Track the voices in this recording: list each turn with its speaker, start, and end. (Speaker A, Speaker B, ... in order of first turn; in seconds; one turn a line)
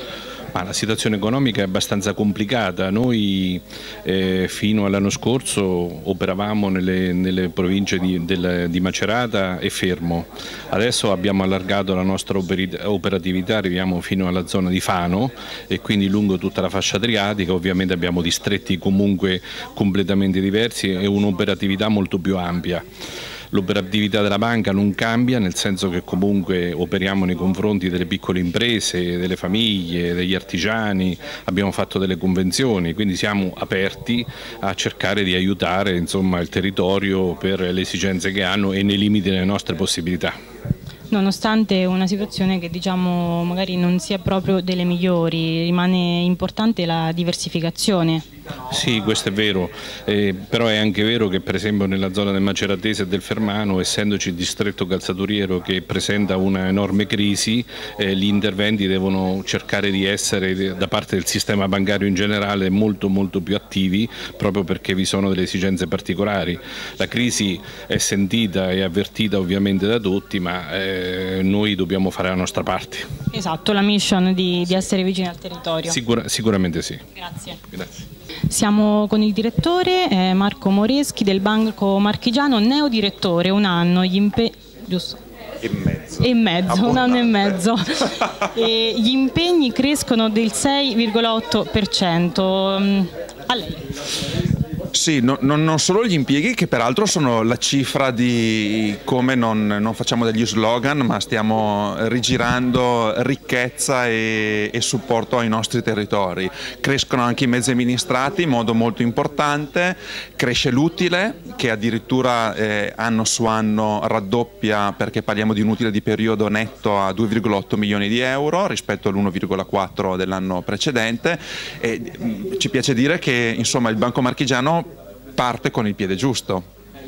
Speaker A: 0.5-22.8
Speaker A: 23.5-40.3
Speaker B: 41.1-48.2
Speaker A: 48.7-73.1
Speaker B: 73.3-76.0
Speaker A: 75.9-77.0
Speaker B: 77.2-77.6
Speaker B: 78.5-85.2
Speaker C: 85.6-86.2
Speaker B: 86.2-93.9
Speaker C: 86.8-87.0
Speaker C: 94.9-126.7